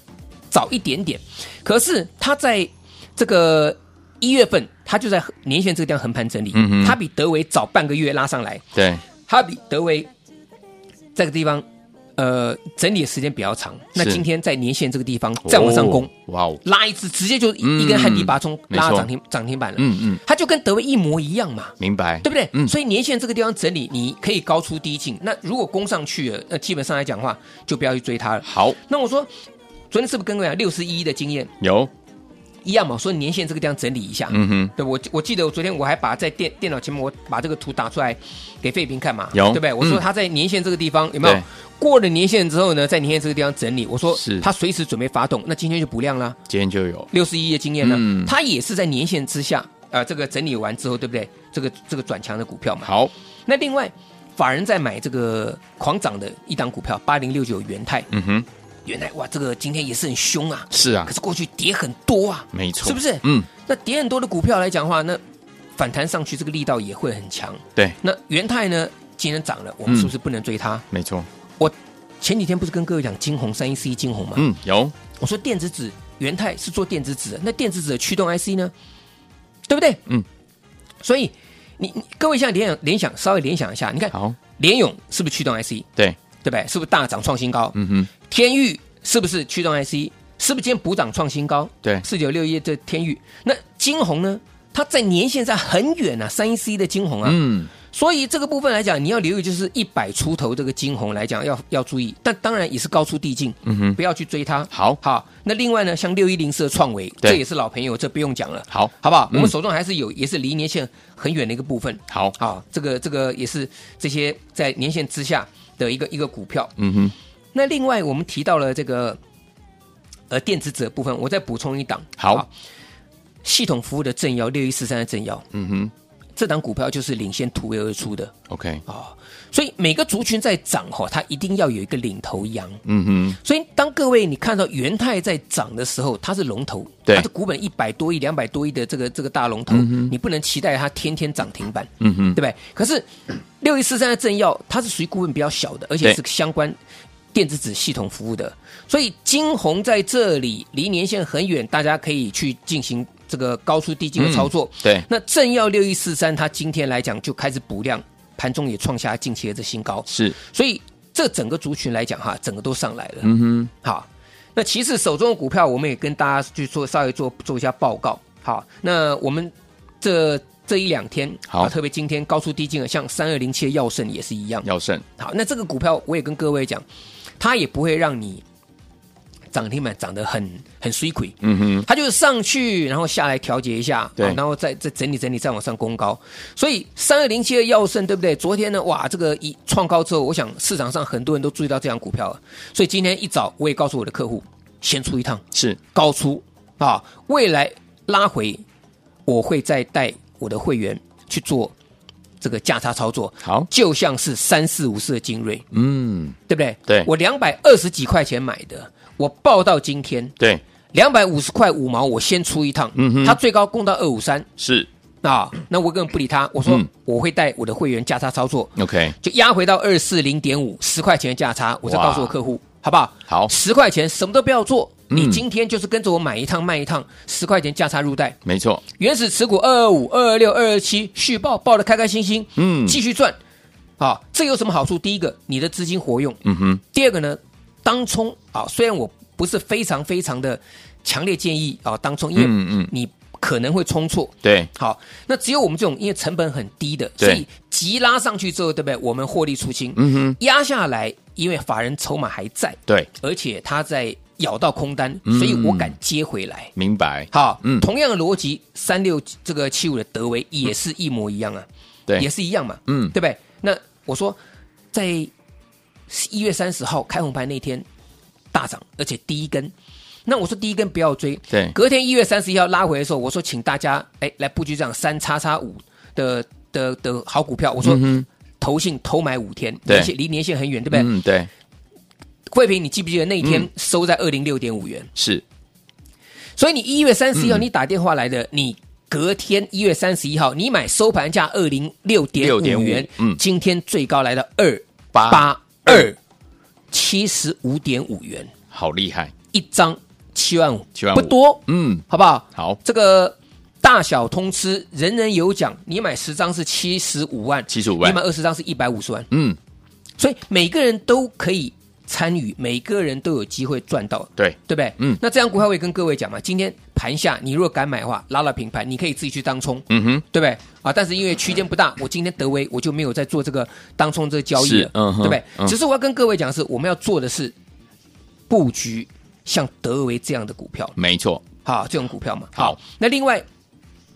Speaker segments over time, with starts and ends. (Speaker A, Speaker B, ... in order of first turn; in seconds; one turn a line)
Speaker A: 0.5-8.6
Speaker B: 6.5-7.0
Speaker B: 8.8-9.0
Speaker A: 9.3-10.1
Speaker A: 11.2-11.7
Speaker A: 12.2-16.1
Speaker B: 14.0-14.2
Speaker B: 15.4-16.6
Speaker A: 16.6-29.3
Speaker B: 17.6-19.1
Speaker B: 19.8-20.2
Speaker B: 21.8-22.7
Speaker B: 28.4-28.8
Speaker A: 29.9-31.5
Speaker B: 31.6-31.9
Speaker A: 32.6-46.4
Speaker B: 34.3-34.7
Speaker B: 39.3-40.0
Speaker B: 44.1-44.5
Speaker B: 46.5-47.1
Speaker A: 47.1-52.9
Speaker B: 47.8-48.3
Speaker B: 52.9-53.1
Speaker A: 53.5-58.1
Speaker B: 58.1-58.5
Speaker A: 58.9-65.2
Speaker B: 60.7-61.1
Speaker B: 62.5-63.5
Speaker A: 65.8-70.8
Speaker B: 70.9-71.3
Speaker A: 71.6-74.5
Speaker B: 74.4-74.9
Speaker A: 75.2-78.7
Speaker A: 79.7-80.0
Speaker A: 81.0-85.9
Speaker A: 86.4-116.7
Speaker B: 87.8-88.1
Speaker B: 97.2-97.7
Speaker B: 103.7-104.0
Speaker B: 104.7-105.0
Speaker B: 108.7-109.5
Speaker B: 116.8-117.1
Speaker A: 117.5-119.2
Speaker A: 120.3-122.5
Speaker B: 122.2-122.4
Speaker A: 123.4-125.5
Speaker B: 125.5-125.9
Speaker A: 126.4-128.3
Speaker B: 128.5-128.8
Speaker A: 128.9-132.8
Speaker B: 132.9-133.4
Speaker A: 133.4-146.8
Speaker B: 139.7-140.1
Speaker B: 142.0-142.4
Speaker A: 147.3-163.3
Speaker B: 154.2-155.1
Speaker B: 160.1-160.3
Speaker B: 163.2-163.7
Speaker A: 163.8-174.7
Speaker B: 174.6-175.0
Speaker A: 175.2-176.8
Speaker A: 177.4-178.4
Speaker A: 179.5-198.6
Speaker B: 181.4-181.9
Speaker A: 199.3-201.7
Speaker A: 202.4-205.7
Speaker B: 205.7-207.1
Speaker A: 206.5-210.3
Speaker A: 210.9-214.5
Speaker B: 213.0-213.4
Speaker B: 214.6-214.9
Speaker A: 215.2-228.4
Speaker B: 218.8-219.1
Speaker B: 221.8-222.3
Speaker B: 225.1-225.4
Speaker B: 228.4-228.8
Speaker A: 229.0-233.4
Speaker B: 232.6-233.0
Speaker A: 234.0-256.7
Speaker B: 236.4-236.8
Speaker B: 242.4-242.9
Speaker B: 244.4-244.7
Speaker B: 250.0-250.4
Speaker B: 255.3-255.9
Speaker B: 256.8-257.9
Speaker A: 257.3-261.7
Speaker A: 262.2-264.4
Speaker B: 262.9-263.1
Speaker A: 264.9-265.3
Speaker A: 266.1-267.9
Speaker A: 268.5-269.7
Speaker A: 270.3-281.1
Speaker B: 277.8-278.3
Speaker B: 280.9-281.5
Speaker A: 282.5-285.1
Speaker B: 285.2-285.4
Speaker A: 286.6-296.2
Speaker B: 287.4-287.6
Speaker B: 292.4-293.4
Speaker B: 295.1-296.1
Speaker A: 296.9-298.5
Speaker B: 298.7-299.3
Speaker A: 299.5-309.3
Speaker B: 301.0-302.0
Speaker B: 307.7-308.2
Speaker B: 309.3-309.6
Speaker A: 310.2-327.5
Speaker B: 314.4-315.2
Speaker B: 319.9-320.2
Speaker B: 324.6-325.8
Speaker A: 328.5-330.9
Speaker B: 331.0-331.4
Speaker A: 331.6-333.5